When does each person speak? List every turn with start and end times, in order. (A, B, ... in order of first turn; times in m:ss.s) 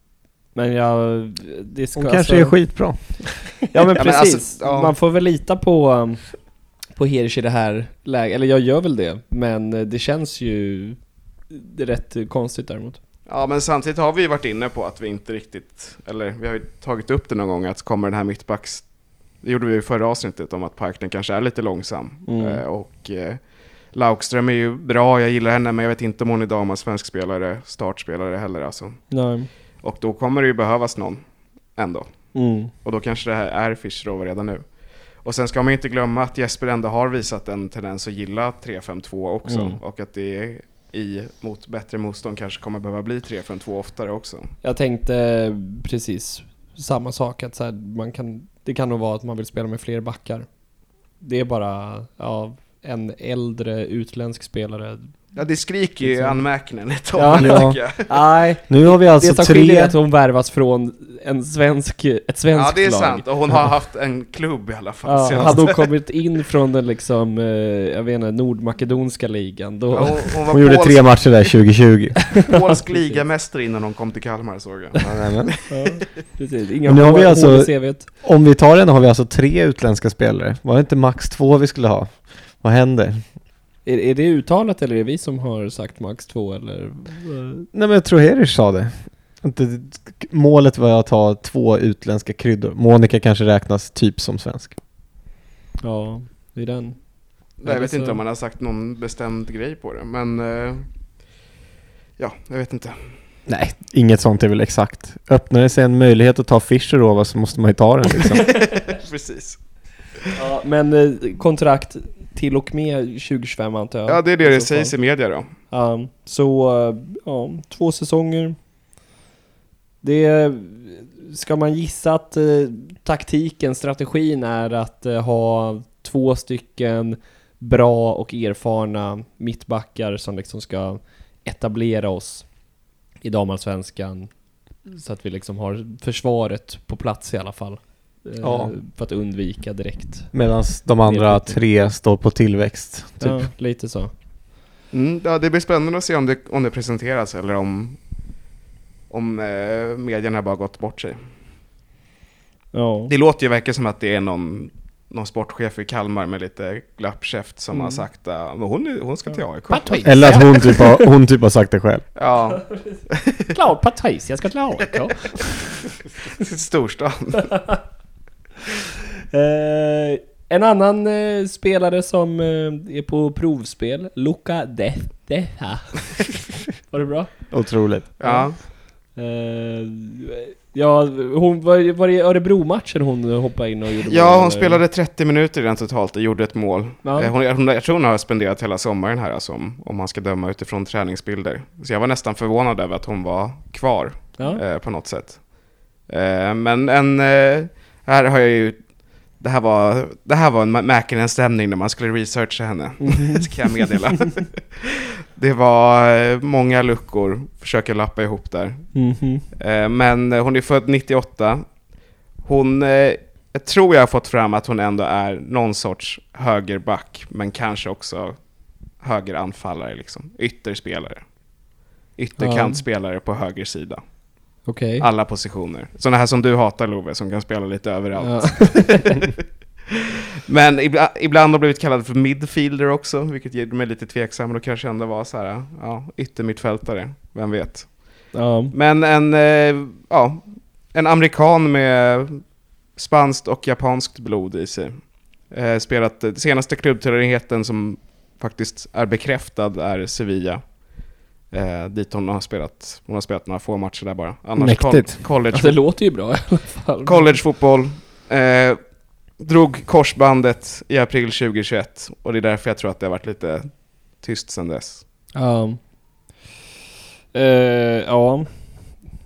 0:00.5-0:03.1 A
0:01.9-0:03.6 B
0:03.7-0:13.0 A
0:04.0-0:04.9 C
0:13.3-0:29.2 C
0:22.2-0:22.6 A
0:29.1-0:29.5 A
0:29.8-0:44.5 C
0:32.3-0:32.7 A
0:39.4-0:39.8 A
0:44.6-0:50.5 A
0:51.2-0:55.4 A
0:55.3-0:58.1 C
0:56.0-0:56.4 A
0:57.1-1:03.5 A
0:57.4-0:57.8 B
0:58.7-0:59.9 B
1:02.5-1:05.8 C
1:05.0-1:10.3 A
1:09.9-1:11.2 C
1:10.5-1:12.3 B
1:12.4-1:15.6 C
1:12.7-1:13.2 A
1:15.0-1:15.6 B
1:15.7-1:18.1 A
1:16.9-1:23.3 B
1:23.8-1:27.6 A
1:27.7-1:34.8 B
1:35.8-1:38.2 A
1:37.6-1:40.9 C
1:42.2-1:43.1 C
1:43.5-1:48.5 B
1:48.6-1:49.6 C
1:50.4-1:55.0 A
1:54.1-1:55.5 C
1:55.7-1:58.6 A
2:00.0-2:21.6 A
2:18.4-2:18.7 B
2:20.3-2:23.5 B
2:23.2-2:24.1 A
2:24.9-2:28.0 C
2:29.1-2:31.2 C
2:32.7-2:33.1 A
2:33.1-2:40.5 C
2:37.7-2:38.0 A
2:39.3-2:41.0 A
2:40.0-2:42.1 B
2:42.2-2:43.5 C
2:42.6-2:45.8 A
2:46.3-2:47.6 C
2:49.3-3:04.8 A
2:57.5-2:58.1 B
2:58.2-2:58.6 C
3:04.1-3:31.8 C
3:07.0-3:07.3 A
3:23.0-3:23.5 A
3:28.9-3:29.4 A
3:32.4-3:44.1 C
3:42.4-3:42.8 A
3:44.6-3:45.0 A
3:44.6-3:49.4 C
3:48.2-3:49.1 A
3:50.5-4:15.8 C
3:58.3-3:58.7 A
4:14.6-4:15.2 B
4:15.5-4:17.4 A
4:17.0-4:25.0 C
4:25.3-4:26.0 A
4:27.3-4:29.0 A